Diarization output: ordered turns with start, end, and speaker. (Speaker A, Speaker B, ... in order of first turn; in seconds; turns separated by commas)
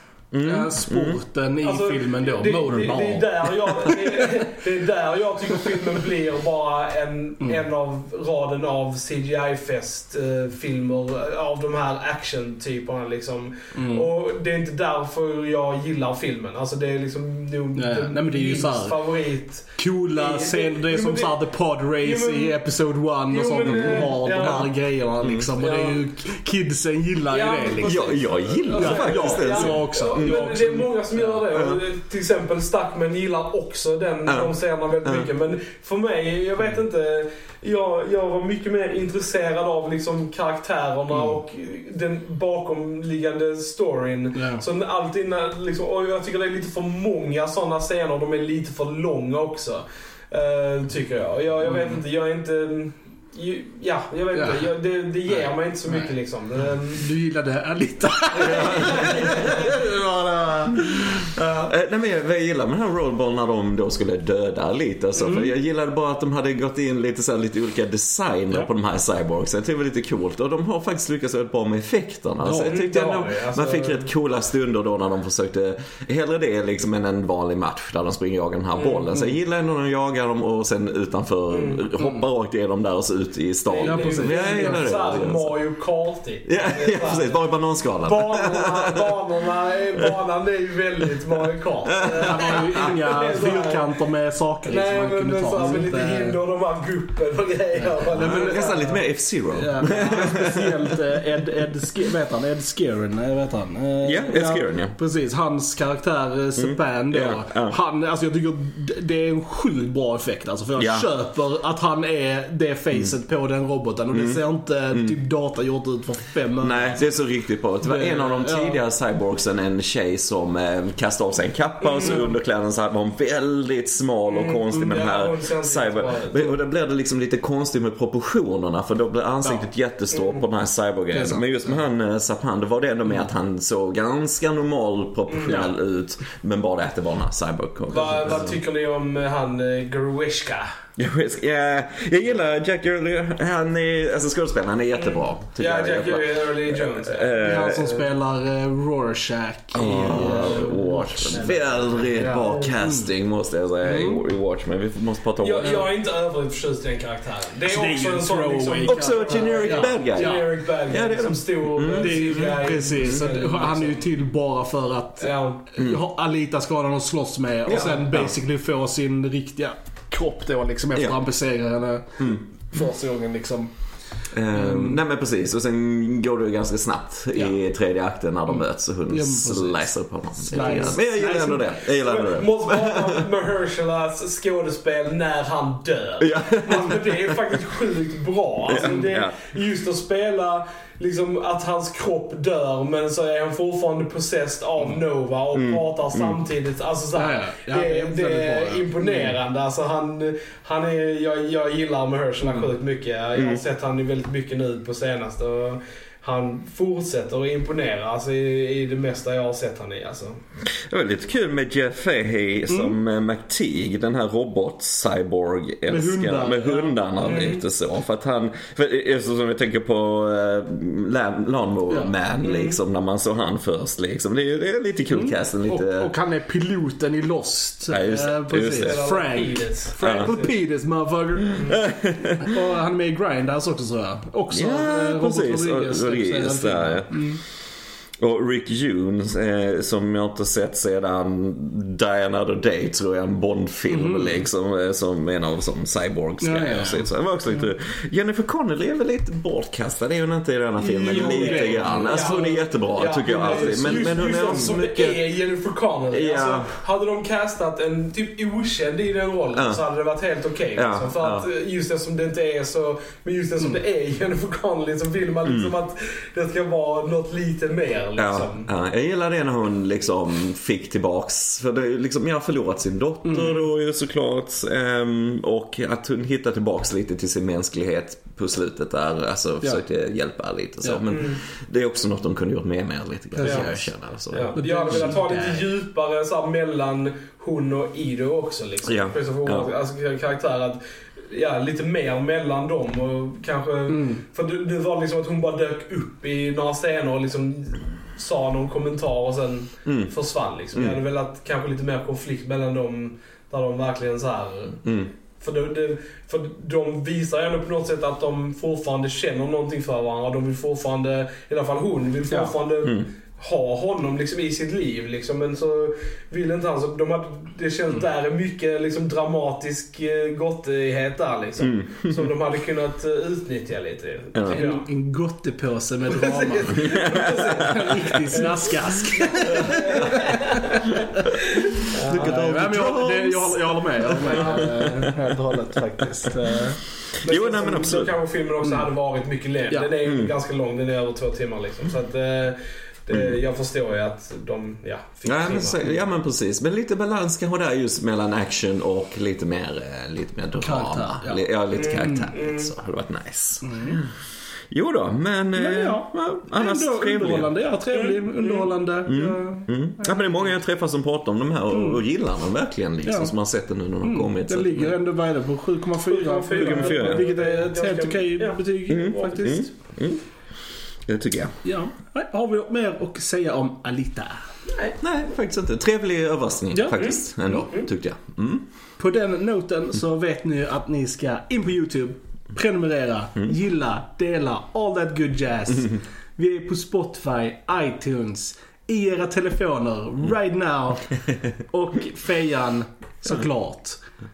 Speaker A: 0.3-1.2, Speaker B: 0.4-4.0, Speaker C: 1.6-21.4, Speaker A: 2.7-3.1, Speaker B: 13.7-14.1, Speaker B: 17.7-19.0, Speaker B: 19.8-31.3, Speaker C: 22.0-22.6, Speaker C: 23.3-24.7, Speaker A: 23.8-24.7, Speaker A: 25.2-25.5, Speaker C: 25.6-26.0, Speaker C: 27.3-57.1, Speaker A: 27.8-30.7, Speaker A: 31.5-31.8, Speaker A: 34.2-34.5, Speaker A: 35.0-35.3, Speaker B: 44.3-44.6, Speaker B: 51.6-52.0, Speaker B: 54.3-54.7, Speaker B: 55.3-56.1, Speaker B: 57.0-61.2, Speaker C: 58.4-59.8, Speaker A: 58.4-59.3, Speaker C: 61.4-61.7, Speaker A: 61.6-85.5, Speaker B: 72.4-72.7, Speaker C: 72.5-74.1, Speaker C: 78.7-79.3, Speaker C: 81.5-81.9, Speaker C: 83.7-87.4, Speaker B: 83.8-85.0, Speaker A: 86.5-89.2, Speaker C: 88.0-93.9, Speaker A: 91.9-92.8, Speaker B: 92.1-96.4, Speaker C: 94.7-99.0, Speaker A: 95.6-95.8, Speaker B: 97.8-98.8, Speaker A: 98.1-101.0, Speaker B: 99.5-117.2, Speaker A: 104.0-104.9, Speaker A: 106.6-107.8, Speaker A: 110.8-111.1, Speaker A: 114.1-115.2, Speaker A: 116.6-138.6, Speaker B: 117.8-118.8, Speaker C: 121.8-122.3, Speaker C: 124.3-126.6, Speaker C: 130.1-130.4, Speaker B: 131.1-131.4, Speaker C: 135.3-135.7, Speaker C: 137.9-140.7, Speaker A: 141.0-148.0, Speaker C: 144.9-147.9, Speaker B: 147.4-153.1, Speaker A: 149.7-155.9, Speaker C: 150.1-152.7, Speaker B: 153.8-154.2, Speaker C: 155.4-164.1, Speaker B: 157.7-160.5, Speaker A: 158.9-163.2, Speaker B: 161.9-173.7, Speaker C: 165.2-165.6, Speaker A: 167.7-168.3, Speaker A: 174.3-183.2, Speaker B: 174.5-175.0, Speaker B: 178.5-181.7, Speaker C: 180.6-180.9, Speaker C: 181.9-210.4, Speaker A: 186.2-187.5, Speaker A: 188.7-189.4, Speaker B: 188.7-189.0, Speaker A: 195.5-196.4, Speaker B: 197.1-199.3, Speaker A: 203.3-203.6, Speaker A: 210.8-226.1, Speaker B: 212.7-212.9, Speaker B: 215.9-217.5, Speaker C: 217.2-217.6, Speaker C: 222.4-222.8, Speaker B: 225.1-231.8, Speaker A: 227.9-229.0, Speaker C: 228.7-230.5, Speaker A: 230.0-230.3, Speaker A: 231.6-232.5, Speaker B: 232.4-237.4, Speaker A: 234.5-237.4, Speaker A: 238.2-255.2, Speaker B: 243.9-244.4, Speaker B: 246.4-247.1, Speaker B: 250.8-252.6, Speaker C: 250.9-268.7, Speaker B: 253.2-254.7, Speaker A: 256.1-256.7, Speaker A: 259.5-259.8, Speaker A: 260.7-261.4, Speaker A: 265.4-265.7, Speaker A: 268.1-285.1, Speaker B: 273.2-273.6, Speaker C: 281.1-281.4, Speaker B: 283.3-283.9, Speaker C: 283.4-283.7, Speaker C: 284.3-304.8, Speaker B: 284.5-285.7, Speaker A: 288.8-289.7, Speaker B: 293.9-294.2, Speaker A: 299.9-300.1, Speaker A: 300.7-301.0, Speaker A: 304.8-305.1, Speaker C: 305.4-324.8, Speaker A: 312.8-313.1, Speaker A: 321.6-322.3, Speaker A: 324.3-324.6, Speaker B: 324.5-331.3, Speaker C: 326.1-332.4, Speaker A: 326.7-328.0, Speaker A: 332.1-335.2, Speaker B: 332.1-336.8, Speaker C: 334.1-335.1, Speaker A: 337.2-338.1, Speaker C: 337.2-345.9, Speaker A: 340.0-340.3, Speaker A: 343.1-343.4, Speaker A: 345.2-354.1, Speaker B: 350.6-351.4, Speaker C: 351.7-352.7, Speaker B: 353.6-354.0, Speaker A: 354.7-357.5, Speaker B: 355.5-360.5, Speaker C: 357.9-358.7, Speaker A: 359.1-365.0, Speaker B: 361.7-362.0, Speaker B: 363.0-363.3, Speaker B: 364.0-369.7, Speaker C: 366.1-369.6, Speaker A: 366.5-367.3, Speaker A: 368.9-370.2, Speaker A: 371.1-371.6, Speaker B: 371.6-374.4, Speaker A: 375.0-378.6, Speaker B: 376.7-377.6, Speaker C: 376.9-377.9, Speaker B: 379.0-391.1, Speaker B: 391.7-394.0